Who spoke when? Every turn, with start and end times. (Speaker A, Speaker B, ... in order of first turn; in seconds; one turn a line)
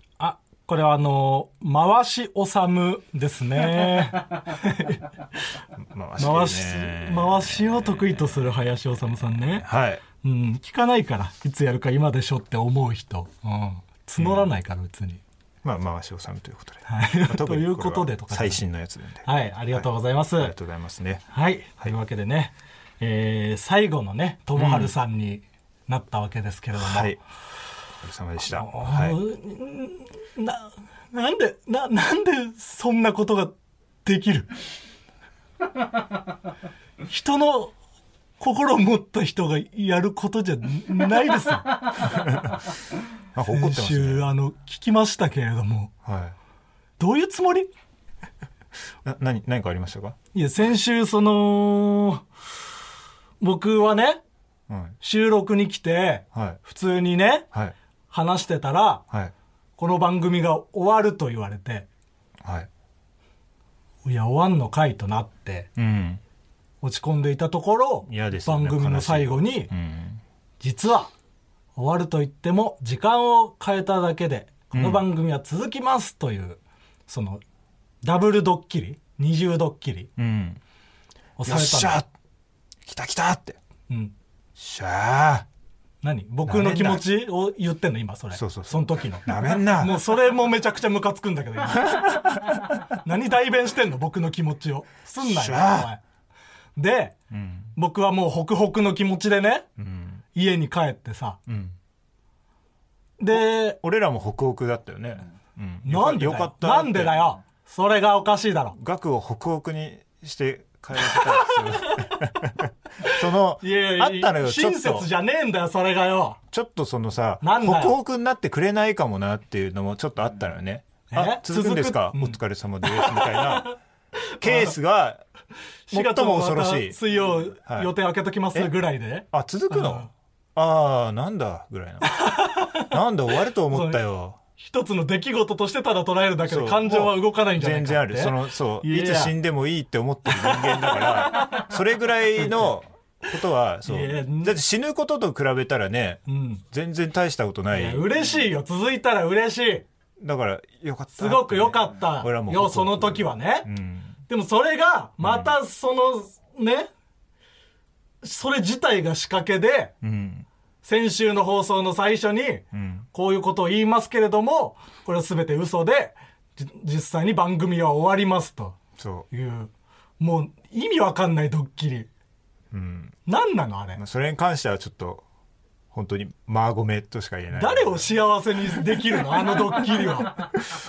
Speaker A: 0.2-5.1
Speaker B: 5.8-8.4
Speaker A: 6.2-9.7
Speaker B: 9.6-10.0
Speaker A: 10.2-15.2
Speaker B: 14.2-14.5
Speaker B: 15.6-21.2
Speaker A: 16.9-18.6
Speaker A: 19.2-20.6
Speaker A: 21.3-27.1
Speaker B: 24.6-24.9
Speaker B: 26.8-27.2
Speaker B: 28.0-29.2
Speaker A: 28.5-33.5
Speaker A: 34.0-34.5
Speaker A: 37.1-37.7
Speaker A: 38.4-41.9
Speaker B: 42.1-42.5
Speaker B: 43.4-44.3
Speaker A: 43.5-45.9
Speaker B: 46.0-46.4
Speaker A: 47.0-47.7
Speaker B: 49.0-50.2
Speaker A: 50.3-52.2
Speaker A: 53.4-54.2
Speaker B: 54.7-55.0
Speaker A: 55.0-57.5
Speaker B: 56.3-56.6
Speaker A: 58.1-59.0
Speaker A: 59.8-61.9
Speaker B: 62.4-62.7
Speaker A: 64.0-65.7
Speaker B: 65.8-66.2
Speaker A: 66.8-69.7
Speaker B: 68.0-70.2
Speaker A: 70.6-71.1
Speaker A: 71.8-77.4
Speaker B: 74.7-75.0
Speaker A: 78.0-80.1
Speaker B: 80.2-80.6
Speaker A: 81.4-82.0
Speaker B: 81.4-82.1
Speaker B: 82.9-83.6
Speaker B: 84.6-85.5
Speaker A: 86.0-92.2
Speaker B: 86.5-87.1
Speaker B: 88.3-90.0
Speaker B: 91.9-92.7
Speaker A: 93.0-96.0
Speaker B: 95.2-95.9
Speaker A: 96.8-97.2
Speaker B: 97.3-97.7
Speaker A: 97.8-99.7
Speaker B: 99.8-100.2
Speaker A: 100.3-101.4
Speaker B: 101.5-101.8
Speaker A: 103.2-103.8
Speaker B: 103.3-107.3
Speaker A: 105.8-108.8
Speaker B: 108.8-115.1
Speaker A: 111.0-112.3
Speaker A: 113.0-116.4
Speaker B: 116.5-123.7
Speaker A: 117.4-118.0
Speaker A: 121.1-123.8
Speaker A: 124.4-124.7
Speaker B: 124.4-125.2
Speaker A: 125.9-130.1
Speaker B: 125.9-127.0
Speaker B: 127.7-127.9
Speaker B: 129.3-132.2
Speaker A: 132.1-132.9
Speaker B: 132.9-134.4
Speaker A: 133.7-134.0
Speaker A: 134.6-139.3
Speaker B: 136.5-148.5
Speaker A: 140.3-141.7
Speaker A: 142.4-142.7
Speaker A: 143.8-144.6
Speaker A: 146.3-146.6
Speaker A: 147.7-149.8
Speaker B: 150.2-154.2
Speaker A: 151.2-153.7
Speaker A: 154.3-156.9
Speaker B: 155.2-155.6
Speaker A: 158.2-159.9
Speaker B: 160.0-160.5
Speaker A: 160.8-168.8
Speaker B: 162.7-163.1
Speaker B: 169.0-169.3
Speaker A: 169.3-172.1
Speaker B: 172.7-173.2
Speaker A: 173.3-174.0
Speaker B: 174.0-175.2
Speaker B: 175.9-178.2
Speaker A: 177.5-180.5